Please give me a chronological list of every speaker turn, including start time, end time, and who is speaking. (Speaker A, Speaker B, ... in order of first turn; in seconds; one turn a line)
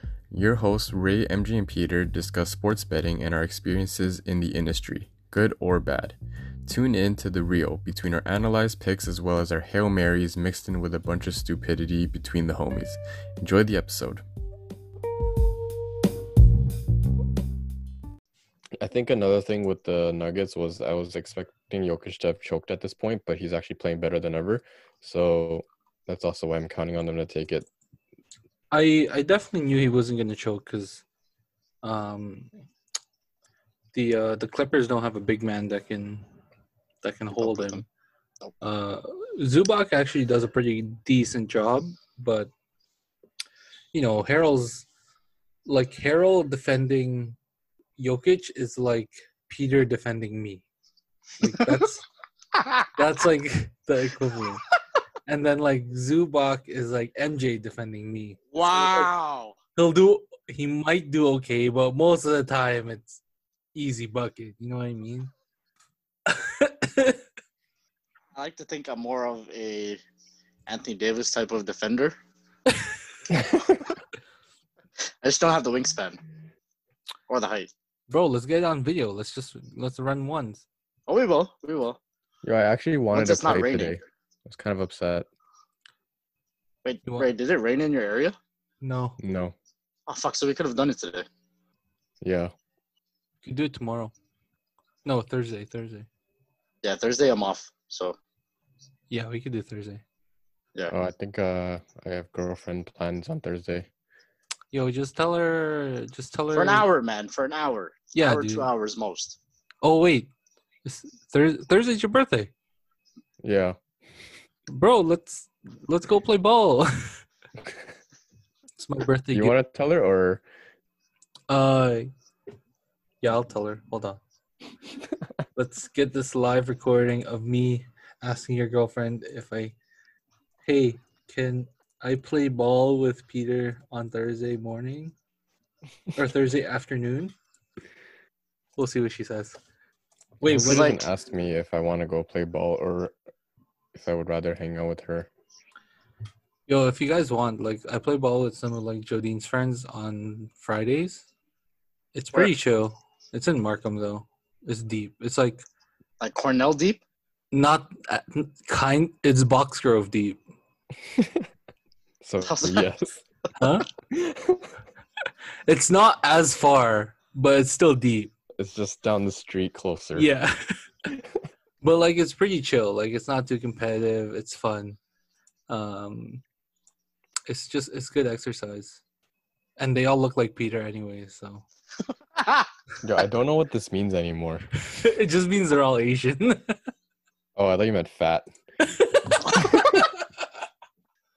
Speaker A: 0.3-14.2
Speaker A: 18.8-27.7
Speaker B: 28.7-31.0
Speaker B: 31.8-32.5
Speaker B: 33.9-36.2
Speaker B: 37.0-37.8
Speaker C: 37.4-37.8
Speaker B: 38.6-42.5
Speaker B: 43.9-44.9
Speaker B: 45.7-47.4
Speaker B: 48.0-50.6
Speaker B: 51.4-52.0
Speaker B: 52.9-54.7
Speaker B: 55.2-59.1
Speaker C: 58.5-59.6
Speaker B: 59.8-63.2
Speaker B: 63.8-65.3
Speaker B: 66.3-67.2
Speaker C: 68.3-70.0
Speaker C: 70.7-72.1
Speaker A: 73.3-73.6
Speaker C: 75.2-76.2
Speaker C: 77.3-77.7
Speaker B: 78.1-80.7
Speaker C: 81.1-82.0
Speaker A: 82.4-85.3
Speaker C: 83.1-84.0
Speaker C: 86.8-88.4
Speaker B: 88.8-89.2
Speaker A: 89.2-89.5
Speaker C: 90.1-91.3
Speaker A: 92.2-92.5
Speaker B: 93.4-94.1
Speaker B: 95.0-96.1
Speaker C: 96.8-98.2
Speaker B: 99.1-100.0
Speaker A: 100.9-103.9
Speaker B: 104.7-106.9
Speaker C: 106.5-109.4
Speaker B: 108.1-108.7
Speaker B: 109.8-110.3
Speaker B: 110.8-112.5
Speaker A: 113.4-113.8
Speaker B: 114.7-117.2
Speaker B: 118.8-119.5
Speaker A: 119.3-120.4
Speaker B: 121.5-122.1
Speaker B: 123.2-124.2
Speaker B: 125.5-129.8
Speaker B: 130.6-135.1
Speaker B: 136.1-137.3
Speaker B: 138.8-139.6
Speaker A: 140.4-143.1
Speaker B: 140.4-140.9
Speaker C: 140.6-141.1
Speaker A: 143.9-145.3
Speaker B: 146.7-151.3
Speaker B: 152.1-155.6
Speaker C: 156.2-157.0
Speaker B: 157.5-160.4
Speaker A: 161.2-161.5
Speaker A: 162.2-163.2
Speaker C: 162.4-162.9
Speaker B: 163.6-163.9
Speaker A: 164.1-164.6
Speaker B: 165.7-168.3
Speaker A: 168.6-170.3
Speaker B: 170.2-170.7
Speaker B: 171.8-175.0
Speaker B: 175.7-176.4
Speaker B: 177.5-179.0
Speaker B: 179.8-181.7
Speaker C: 182.4-182.7
Speaker A: 183.0-184.6
Speaker B: 184.9-186.8
Speaker A: 187.6-188.5
Speaker B: 188.8-190.0
Speaker A: 189.6-189.9